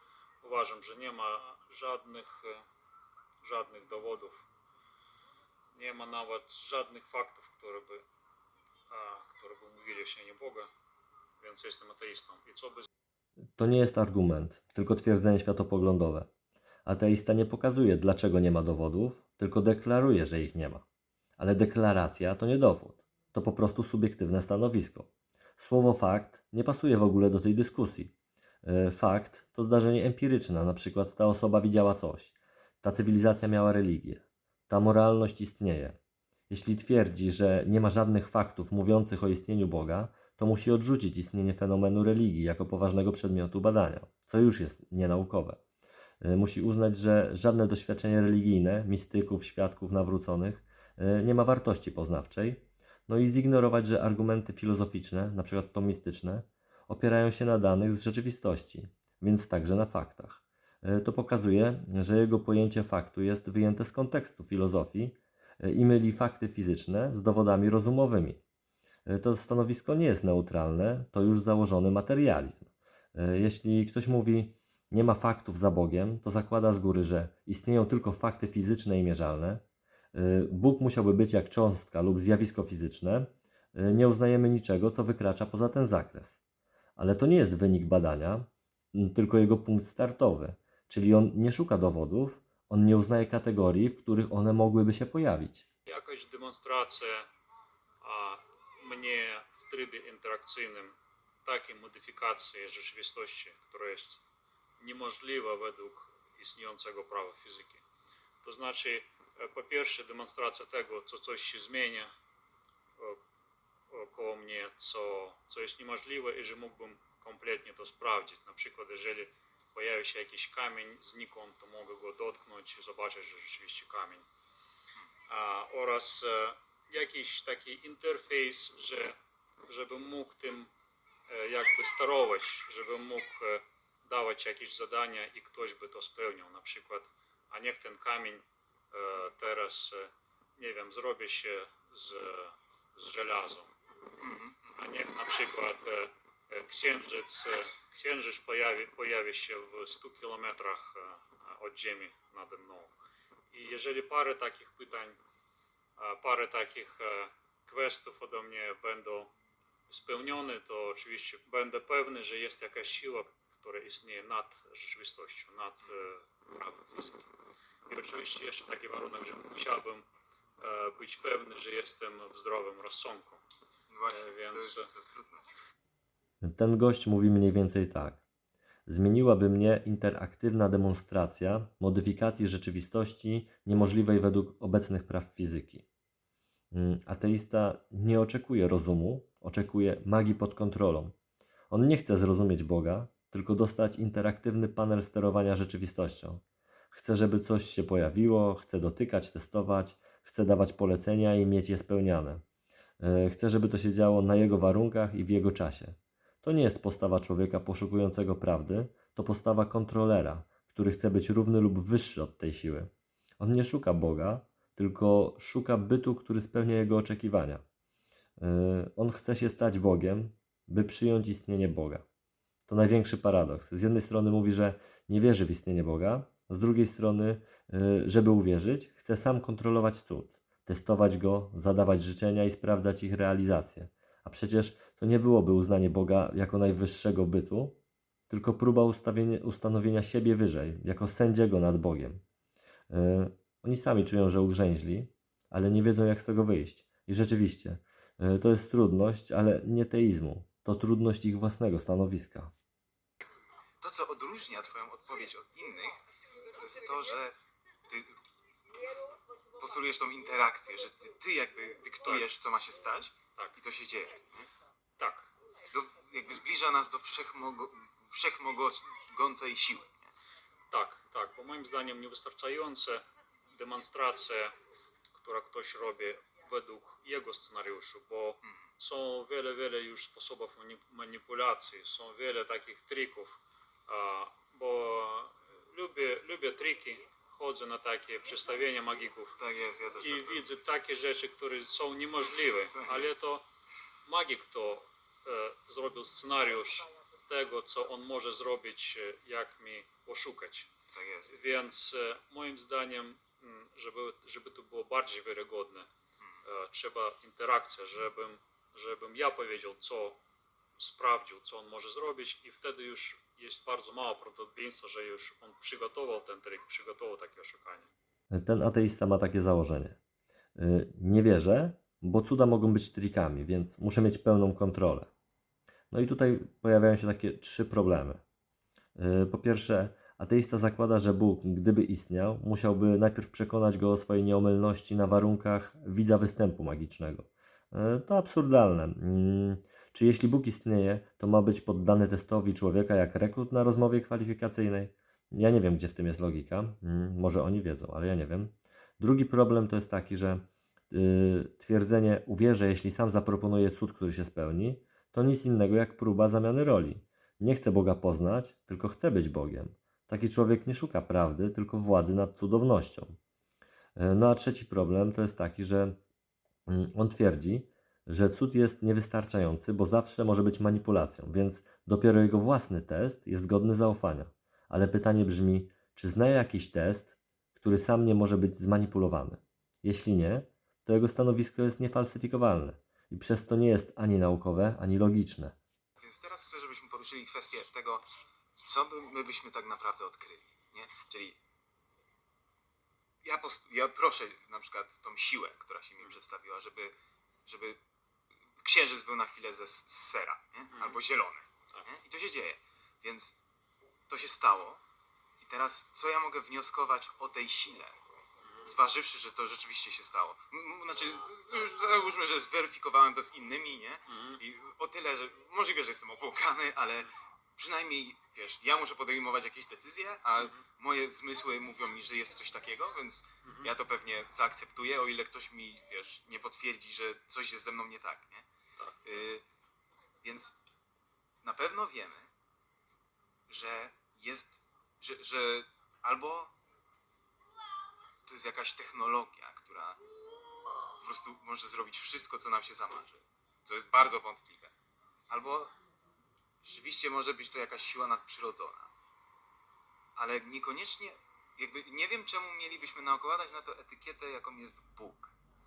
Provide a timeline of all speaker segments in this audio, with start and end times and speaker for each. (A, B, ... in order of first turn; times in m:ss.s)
0:00.4-0:02.6 A
0:03.4-0:04.4 A
0:05.8-0:08.0 A
0:08.9-0:10.7 A
0:11.4-0:12.9 A
0:13.6-0:16.3 B
0:16.9-0:20.8 B
0:21.4-0:36.0 B
0:36.5-0:45.6 B
0:46.2-1:08.4 B
1:09.1-1:19.6 B
1:20.1-1:26.4 B
1:27.0-1:35.7 B
1:35.9-1:37.3 A
1:38.0-1:44.2 A
1:44.8-1:47.8 A
1:48.4-1:52.1 A
1:53.9-2:04.2 A
2:05.3-2:09.2 A
2:09.7-2:10.7 A
2:11.3-2:23.7 A
2:24.2-2:24.7 C
2:24.8-2:32.9 A
2:33.5-2:35.2 A
2:36.0-2:39.3 A
2:39.9-2:47.3 A
2:47.9-2:50.0 A
2:50.6-2:53.4 A
2:53.9-2:55.4 C
2:54.1-2:54.9 A
2:56.4-2:58.2 B
2:58.9-3:05.8 B
3:06.7-3:11.2 B
3:11.7-3:22.4 B
3:23.0-3:37.6 B
3:38.4-3:42.0 B
3:42.7-3:57.8 B
3:58.3-4:02.2 B
4:02.9-4:12.5 B
4:13.8-4:16.0 C
4:16.5-4:17.4 C
4:17.9-4:18.1 C
4:19.6-4:24.5 C
4:25.0-4:25.3 A
4:25.7-4:30.1 C
4:30.7-4:33.0 A
4:33.5-4:34.5 A
4:35.1-4:49.4 A
4:49.4-4:50.4 C
4:50.0-4:53.4 A
4:54.0-5:00.7 A
5:00.9-5:01.4 C
5:01.3-5:05.9 A
5:06.4-5:10.2 A
5:10.8-5:17.9 A
5:18.3-5:20.0 B
5:20.6-5:25.1 B
5:25.9-5:28.2 B
5:29.0-6:03.2 B
6:04.0-6:06.0 B
6:06.7-6:25.6 B
6:26.0-6:28.1 C
6:28.6-6:31.4 C
6:33.2-6:36.9 C
6:37.5-6:37.8 C
6:38.6-6:43.4 C
6:40.7-6:41.0 A
6:44.1-6:44.8 C
6:45.4-6:48.0 C
6:48.6-7:08.4 C
6:54.1-6:54.4 A
7:00.4-7:00.6 A
7:03.4-7:03.7 A
7:09.0-7:09.4 C
7:10.2-7:10.6 C
7:11.4-7:12.3 C
7:13.5-7:16.5 C
7:18.3-7:20.0 C
7:21.0-7:24.7 C
7:25.3-7:25.7 C
7:26.6-7:28.9 C
7:30.2-7:35.3 C